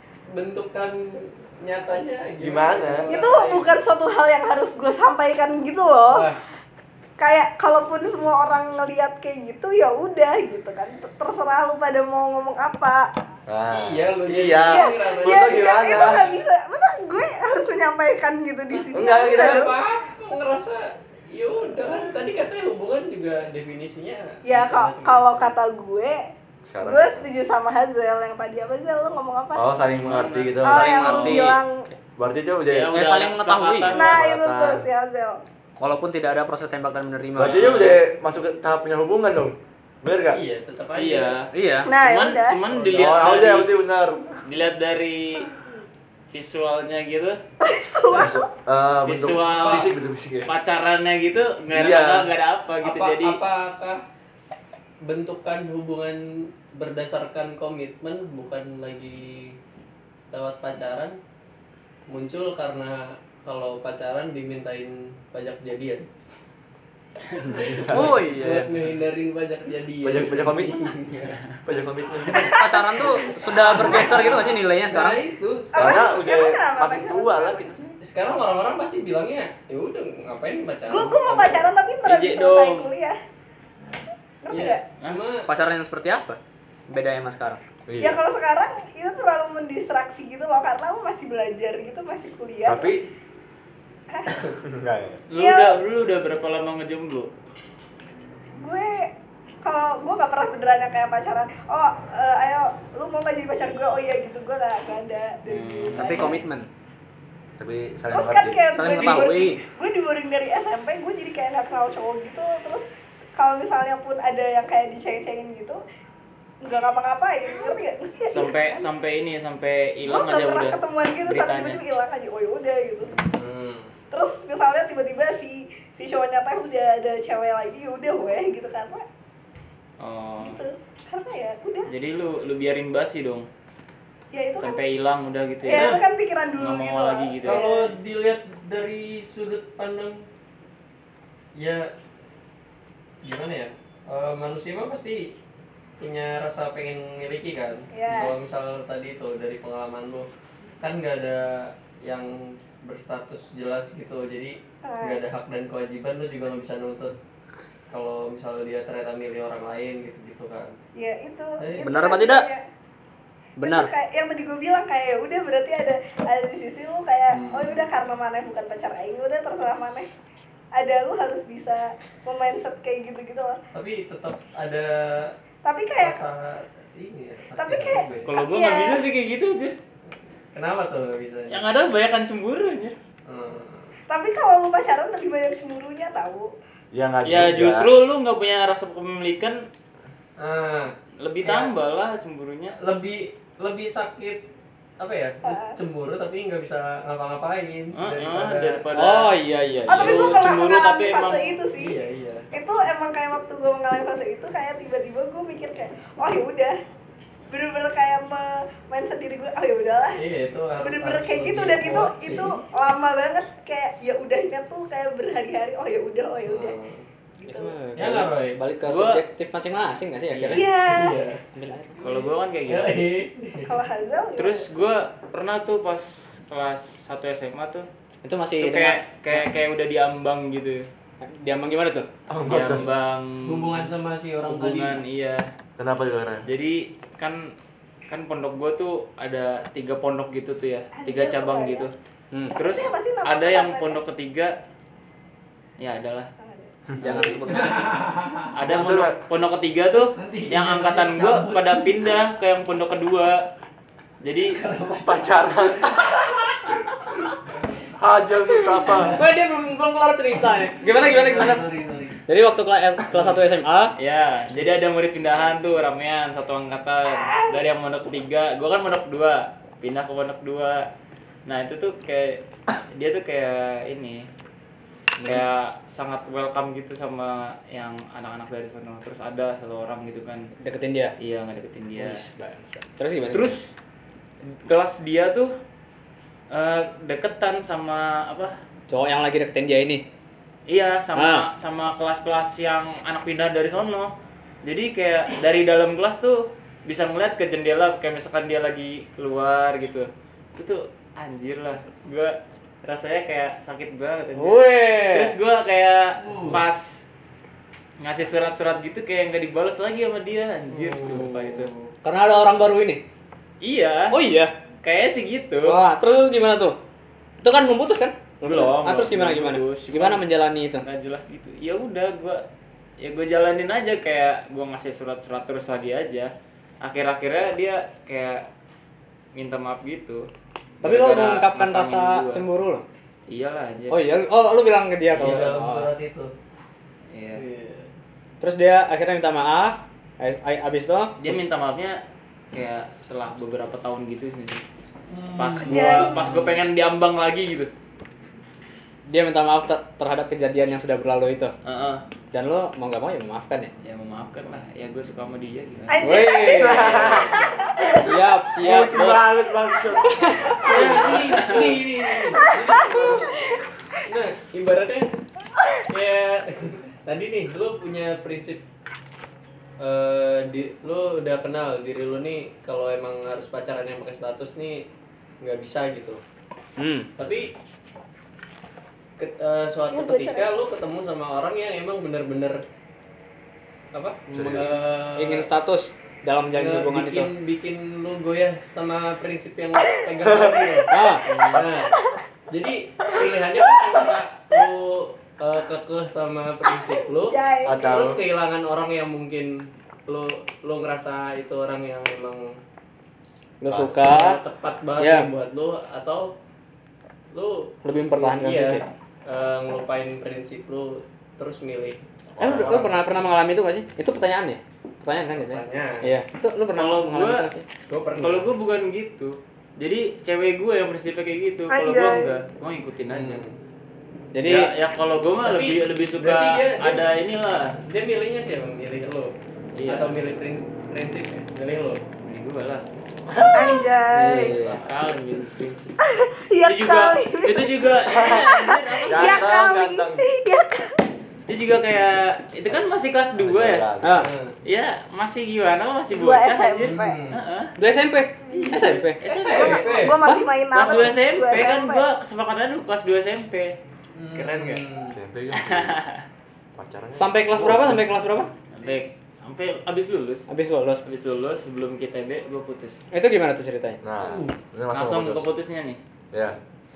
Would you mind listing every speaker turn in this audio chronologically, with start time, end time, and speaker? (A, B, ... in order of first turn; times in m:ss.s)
0:00.3-0:03.8 A
0:02.4-0:03.1 B
0:03.1-0:06.3 C
0:06.1-0:06.4 A
0:07.2-0:13.1 C
0:13.5-0:16.4 B
0:13.7-0:16.2 A
0:14.7-0:19.7 C
0:18.8-0:25.6 A
0:18.9-0:19.7 B
0:24.5-0:26.2 C
0:26.7-0:27.3 B
0:26.8-0:29.7 C
0:29.6-0:30.9 B
0:29.8-0:31.6 D
0:30.6-0:31.8 C
0:30.6-0:31.6 E
0:32.2-0:33.0 B
0:32.7-0:34.2 D
0:32.9-0:34.0 E
0:33.9-0:34.9 B
0:33.9-0:35.4 C
0:35.8-0:37.9 E
0:37.4-0:40.4 B
0:37.4-0:38.0 D
0:40.3-0:41.4 A
0:41.0-0:43.7 D
0:41.5-0:41.9 E
0:41.9-0:42.6 C
0:42.7-0:43.1 A
0:43.0-0:44.4 B
0:44.4-0:45.5 D
0:46.3-0:47.4 D
0:47.6-0:48.5 C
0:48.1-0:50.5 B
0:49.1-0:49.9 D
0:49.6-0:49.8 A
0:50.5-0:53.4 D
0:51.7-0:52.3 B
0:52.8-0:54.0 A
0:55.0-0:59.6 A
1:00.3-1:01.2 A
1:02.1-1:06.1 A
1:07.4-1:08.2 B
1:07.6-1:11.4 A
1:07.9-1:08.7 E
1:10.0-1:11.0 B
1:11.6-1:12.7 B
1:12.3-1:15.2 E
1:12.3-1:13.1 C
1:12.5-1:16.3 A
1:15.8-1:17.7 C
1:15.8-1:17.9 B
1:18.0-1:21.7 A
1:20.9-1:23.2 C
1:22.0-1:22.9 D
1:24.4-1:24.8 C
1:24.5-1:25.5 A
1:25.5-1:27.6 E
1:27.9-1:28.2 B
1:28.0-1:33.0 C
1:32.6-1:33.0 B
1:34.1-1:34.4 C
1:34.6-1:35.2 B
1:35.3-1:37.3 D
1:35.4-1:35.8 C
1:38.6-1:39.1 C
1:39.6-1:46.4 C
1:45.5-1:46.3 D
1:45.9-1:46.7 E
1:47.6-1:48.9 B
1:48.1-1:55.8 C
1:48.7-1:49.6 E
1:56.6-1:58.9 C
1:57.5-1:57.7 A
1:58.3-2:01.8 D
2:00.1-2:03.1 C
2:03.0-2:03.9 A
2:04.1-2:09.0 C
2:10.0-2:10.6 D
2:10.4-2:11.9 C
2:11.9-2:13.5 D
2:14.3-2:14.8 C
2:14.6-2:16.0 D
2:15.6-2:17.9 C
2:15.7-2:16.0 A
2:16.6-2:17.6 D
2:17.4-2:20.2 A
2:21.6-2:21.9 A
2:23.2-2:25.3 A
2:26.0-2:30.3 A
2:27.9-2:28.4 C
2:30.8-2:37.2 A
2:34.8-2:35.2 C
2:37.9-2:40.8 A
2:41.0-2:42.6 C
2:41.6-2:41.9 A
2:41.8-2:42.5 E
2:43.6-2:43.9 E
2:43.6-2:50.1 C
2:47.3-2:47.9 A
2:50.8-2:53.6 C
2:53.7-2:55.3 A
2:55.6-2:56.2 C
2:56.0-2:58.3 A
2:57.6-2:59.0 C
2:58.3-2:59.8 D
3:00.1-3:01.6 A
3:01.5-3:03.0 D
3:03.3-3:04.0 A
3:04.1-3:06.5 C
3:06.9-3:07.9 B
3:07.2-3:09.6 D
3:10.4-3:11.7 A
3:11.2-3:12.8 D
3:12.8-3:14.4 A
3:15.0-3:18.9 A
3:15.4-3:15.8 C
3:18.0-3:21.6 D
3:19.0-3:20.3 E
3:19.9-3:22.0 C
3:21.8-3:22.5 A
3:22.5-3:26.8 C
3:27.5-3:30.2 C
3:30.2-3:32.6 A
3:30.8-3:36.8 C
3:36.5-3:37.1 A
3:37.4-3:37.7 C
3:37.5-3:40.7 E
3:38.0-3:38.6 A
3:38.8-3:39.2 D
3:40.5-3:41.2 C
3:40.6-3:41.4 A
3:41.5-3:42.0 E
3:42.0-3:43.0 D
3:42.0-3:43.8 A
3:43.7-3:44.7 C
3:44.4-3:47.9 D
3:48.2-3:49.5 E
3:48.6-3:50.9 D
3:51.2-3:52.1 E
3:52.3-3:52.9 B
3:52.5-3:53.9 D
3:53.4-3:55.0 A
3:54.4-3:55.5 D
3:55.8-3:56.5 B
3:56.5-3:57.5 D
3:58.1-4:01.9 D
4:01.0-4:01.9 C
4:02.3-4:02.6 E
4:02.6-4:04.0 C
4:02.6-4:04.6 D
4:05.8-4:06.3 D
4:06.4-4:07.5 C
4:07.0-4:07.9 E
4:07.2-4:08.6 A
4:08.5-4:13.5 D
4:08.7-4:09.2 B
4:10.1-4:12.1 A
4:14.2-4:14.6 D
4:14.5-4:16.2 A
4:15.0-4:16.1 B
4:18.0-4:19.2 B
4:18.7-4:19.3 A
4:19.1-4:21.7 E
4:20.8-4:22.2 A
4:22.3-4:23.9 E
4:24.0-4:30.9 D
4:31.5-4:34.3 D
4:35.3-4:40.5 D
4:40.6-4:41.2 E
4:41.2-4:42.2 D
4:42.0-4:43.6 E
4:43.3-4:43.7 D
4:44.4-4:45.5 D
4:46.5-4:48.6 D
4:48.9-4:50.0 E
4:50.7-4:54.1 D
4:51.2-4:51.5 E
4:54.6-5:07.0 D
5:04.4-5:05.4 E
5:06.2-5:06.6 A
5:08.0-5:11.7 D
5:10.9-5:11.7 A
5:12.0-5:13.0 E
5:13.6-5:14.2 D
5:14.1-5:14.5 E
5:14.8-5:15.8 D
5:15.6-5:16.8 E
5:17.4-5:20.8 E
5:18.4-5:20.2 D
5:20.8-5:22.4 D
5:23.0-5:26.3 D
5:26.8-5:28.5 D
5:29.3-5:30.3 D
5:30.8-5:32.4 D
5:30.8-5:32.8 E
5:33.3-5:34.1 D
5:33.9-5:35.9 E
5:35.1-5:36.3 A
5:37.1-5:37.4 D
5:37.3-5:37.9 A
5:38.4-5:41.3 E
5:41.2-5:42.0 D
5:42.5-5:44.6 D
5:45.1-5:46.5 A
5:45.4-5:47.7 D
5:45.6-5:46.2 C
5:49.1-5:51.5 E
5:51.6-5:52.0 D
5:52.3-5:53.7 E
5:53.8-5:56.2 D
5:55.9-5:58.0 C
5:56.0-5:57.0 E
5:56.4-5:58.0 B
5:56.9-5:57.5 A
5:57.9-5:59.3 E
5:58.6-6:00.9 B
6:00.2-6:00.5 E
6:00.6-6:03.4 A
6:00.6-6:01.8 D
6:02.3-6:03.6 C
6:04.1-6:05.2 A
6:05.9-6:08.6 A
6:09.8-6:14.9 A
6:15.4-6:16.2 A
6:16.8-6:17.1 E
6:17.2-6:17.5 A
6:19.2-6:22.6 A
6:19.9-6:20.6 C
6:23.9-6:25.5 A
6:24.3-6:24.8 B
6:25.1-6:27.3 E
6:26.5-6:32.0 A
6:30.3-6:30.6 B
6:30.9-6:31.5 E
6:32.5-6:39.5 A
6:36.9-6:37.8 C
6:37.6-6:38.2 B
6:40.1-6:42.6 A
6:43.6-6:44.4 E
6:43.8-6:46.4 A
6:45.0-6:45.3 E
6:47.3-6:52.0 A
6:47.8-6:48.9 E
6:52.4-6:53.0 B
6:52.4-6:57.7 E
6:55.3-6:56.1 A
6:56.8-6:57.5 D
6:57.9-6:58.5 A
6:58.2-7:03.4 D
7:01.7-7:02.3 C
7:03.1-7:03.6 A
7:04.3-7:04.7 E
7:04.4-7:07.8 D
7:05.4-7:07.0 A
7:07.9-7:09.3 A
7:09.8-7:10.2 D
7:09.9-7:12.0 A
7:12.2-7:12.8 D
7:13.3-7:13.6 B
7:13.5-7:14.5 C
7:14.1-7:14.8 E
7:14.4-7:15.0 A
7:14.8-7:16.0 D
7:16.0-7:21.0 C
7:16.6-7:19.5 D
7:18.1-7:18.5 B
7:19.1-7:20.3 B
7:21.5-7:23.9 D
7:23.4-7:24.3 B
7:24.0-7:24.3 E
7:24.2-7:24.6 A
7:24.6-7:27.7 D
7:26.1-7:27.2 C
7:26.8-7:27.4 A
7:27.8-7:29.2 E
7:28.5-7:30.2 A
7:28.5-7:32.0 C
7:29.2-7:30.2 D
7:30.7-7:33.8 D
7:34.2-7:35.2 A
7:34.4-7:34.8 D
7:35.1-7:36.0 B
7:35.5-7:36.2 D
7:36.8-7:38.1 B
7:37.2-7:38.5 E
7:38.7-7:40.5 D
7:40.5-7:41.0 E
7:41.0-7:43.0 D
7:43.1-7:44.0 E
7:44.0-7:45.5 B
7:44.2-7:44.6 A
7:44.9-7:46.0 D
7:46.3-7:46.6 B